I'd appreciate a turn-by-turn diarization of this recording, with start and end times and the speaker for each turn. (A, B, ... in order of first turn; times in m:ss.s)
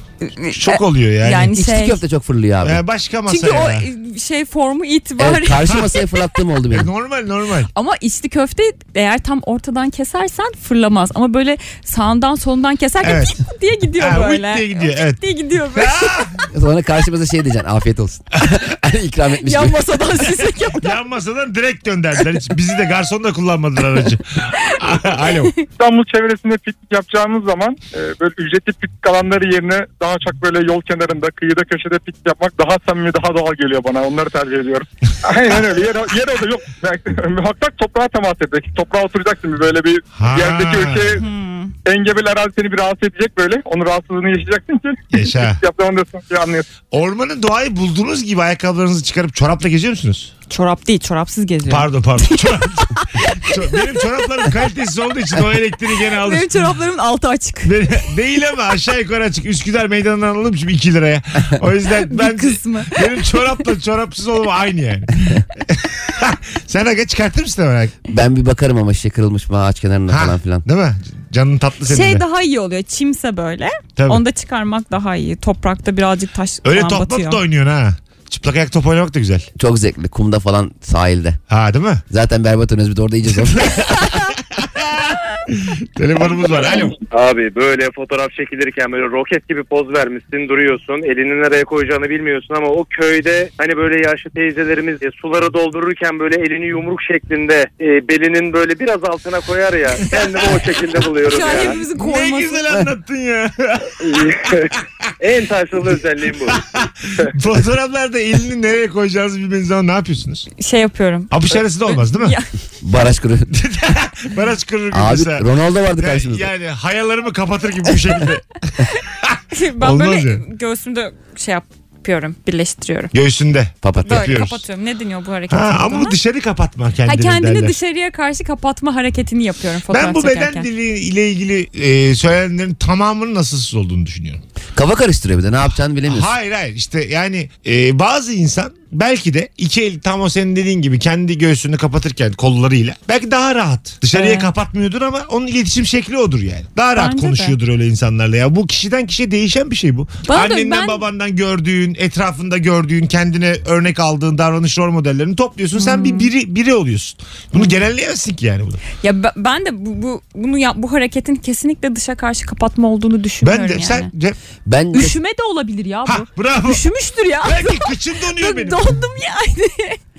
0:00.2-0:02.0 A
0:00.5-0:01.5 B
0:01.5-0:02.8 C
0:02.6-0:03.9 B
0:03.3-0:05.8 A
0:05.2-0:06.9 C
0:06.7-0:07.7 B
0:07.7-0:16.2 A
0:13.0-0:13.4 B
0:14.0-0:15.2 B
0:15.7-0:16.4 B
0:16.5-0:19.8 C
0:19.4-0:20.9 A
0:20.8-0:25.5 B
0:25.8-0:41.2 D
0:40.2-0:41.2 B
0:41.2-0:41.7 A
0:41.8-0:46.7 D
0:45.1-0:45.6 B
0:46.9-0:50.3 B
0:50.5-0:53.8 A
0:51.7-0:56.5 B
0:56.2-0:57.8 A
0:57.6-1:08.0 B
1:02.0-1:03.4 A
1:08.1-1:10.6 C
1:10.1-1:12.2 B
1:11.9-1:17.4 A
1:14.0-1:14.2 B
1:16.6-1:19.5 B
1:19.6-1:21.4 C
1:21.5-1:22.0 B
1:22.1-1:23.9 C
1:23.6-1:23.9 B
1:24.5-1:27.0 B
1:27.0-1:41.8 E
1:41.2-1:42.6 A
1:41.8-1:44.4 B
1:44.0-1:44.7 E
1:45.2-1:46.7 E
1:46.5-1:50.5 B
1:50.6-1:52.5 A
1:51.3-1:52.3 B
1:52.8-1:53.5 C
1:53.5-2:00.4 B
1:54.9-1:56.5 C
1:59.5-2:03.1 A
2:03.1-2:04.6 B
2:03.8-2:04.3 C
2:04.0-2:06.2 A
2:05.5-2:07.8 B
2:07.0-2:10.7 A
2:09.9-2:14.4 B
2:14.7-2:16.3 C
2:16.0-2:38.8 B
2:24.1-2:24.5 A
2:26.9-2:27.5 A
2:30.2-2:31.0 A
2:35.8-2:36.3 A
2:39.0-2:44.1 A
2:43.4-2:44.4 B
2:44.6-2:45.1 C
2:44.9-2:50.0 A
2:46.0-2:46.8 B
2:47.4-2:48.9 B